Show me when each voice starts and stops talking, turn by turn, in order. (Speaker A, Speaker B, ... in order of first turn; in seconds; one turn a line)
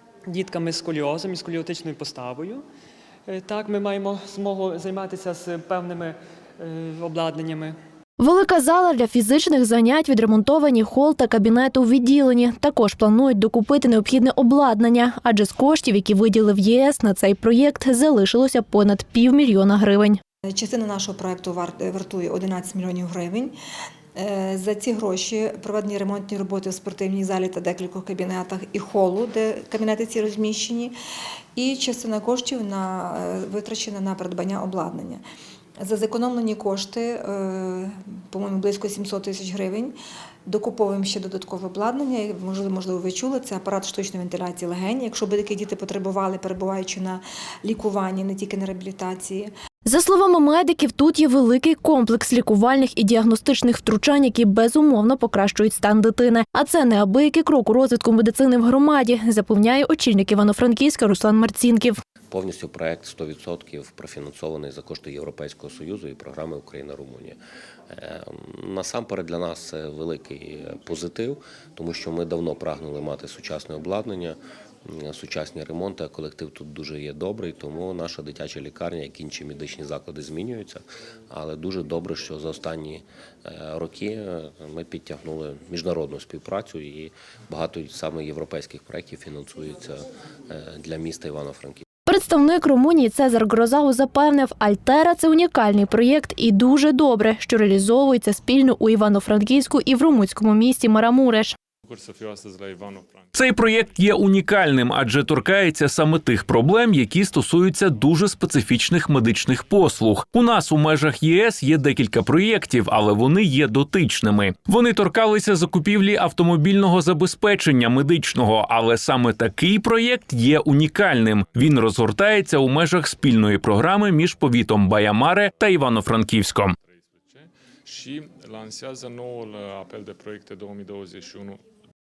Speaker A: 0.2-2.6
Speaker A: 3.2-7.8
Speaker B: 8.2-20.2
Speaker C: 20.5-23.5
Speaker C: 24.1-30.9
Speaker C: 31.6-35.2
Speaker C: 35.8-39.9
Speaker C: 40.5-49.5
Speaker B: 49.8-62.0
Speaker D: 62.3-67.4
Speaker D: 67.9-91.8
Speaker B: 92.1-101.5
Speaker E: 101.9-103.2
Speaker F: 103.3-126.8
Speaker E: 127.3-131.6